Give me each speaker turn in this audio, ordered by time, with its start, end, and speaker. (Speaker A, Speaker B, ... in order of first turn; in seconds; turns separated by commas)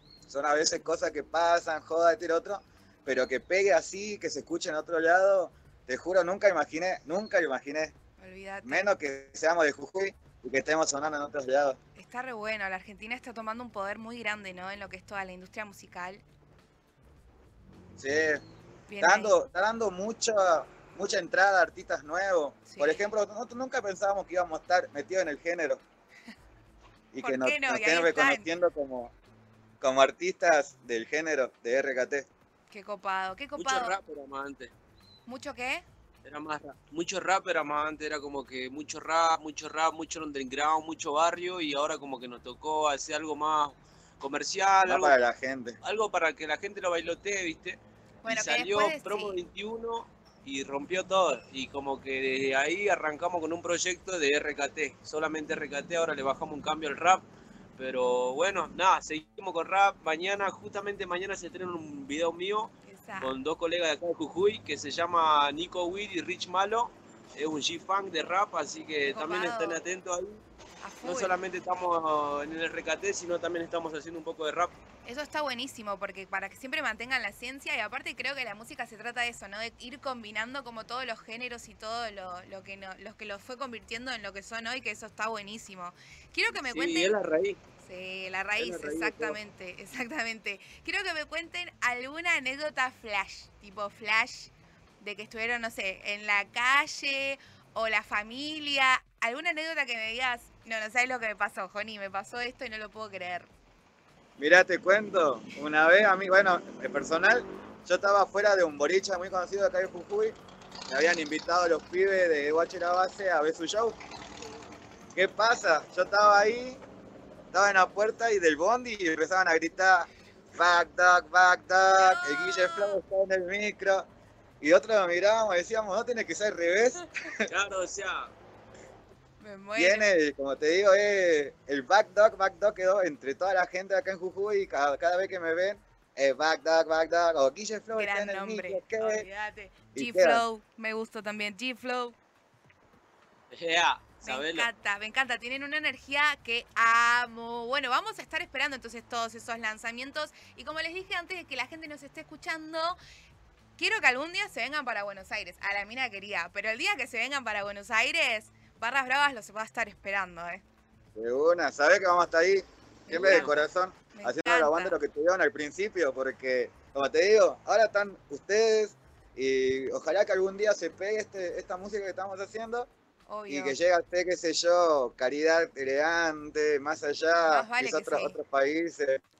Speaker A: 0.3-7.9, Speaker B: 8.2-8.9, Speaker A: 8.6-11.8, Speaker B: 12.0-16.2, Speaker A: 18.0-18.4, Speaker B: 18.9-19.4, Speaker A: 19.0-25.8, Speaker B: 22.7-23.1, Speaker A: 27.1-29.1, Speaker B: 27.2-28.5, Speaker A: 29.8-32.3, Speaker B: 32.7-34.0, Speaker C: 33.6-34.7, Speaker B: 35.3-35.9, Speaker C: 36.2-45.2, Speaker A: 44.9-45.8, Speaker C: 45.8-57.2, Speaker B: 48.2-49.4, Speaker C: 57.8-70.4, Speaker B: 62.8-63.4, Speaker B: 69.1-69.8, Speaker B: 70.8-71.4, Speaker C: 71.0-74.7, Speaker B: 75.0-87.2, Speaker C: 86.5-87.6, Speaker B: 87.8-103.5, Speaker C: 88.6-89.4, Speaker A: 104.4-110.4, Speaker A: 110.9-114.0, Speaker A: 115.1-116.8, Speaker A: 117.5-124.1, Speaker B: 122.0-123.0, Speaker A: 124.6-127.5, Speaker C: 127.5-128.3, Speaker B: 129.4-130.1, Speaker A: 129.8-139.3, Speaker B: 137.9-142.2, Speaker A: 139.9-140.4, Speaker C: 143.5-144.7, Speaker B: 144.2-153.0, Speaker B: 153.8-160.6, Speaker A: 161.2-172.9, Speaker B: 163.1-163.5, Speaker C: 163.1-163.5, Speaker B: 164.1-165.0, Speaker B: 173.3-173.8, Speaker A: 173.5-179.2, Speaker B: 177.5-178.4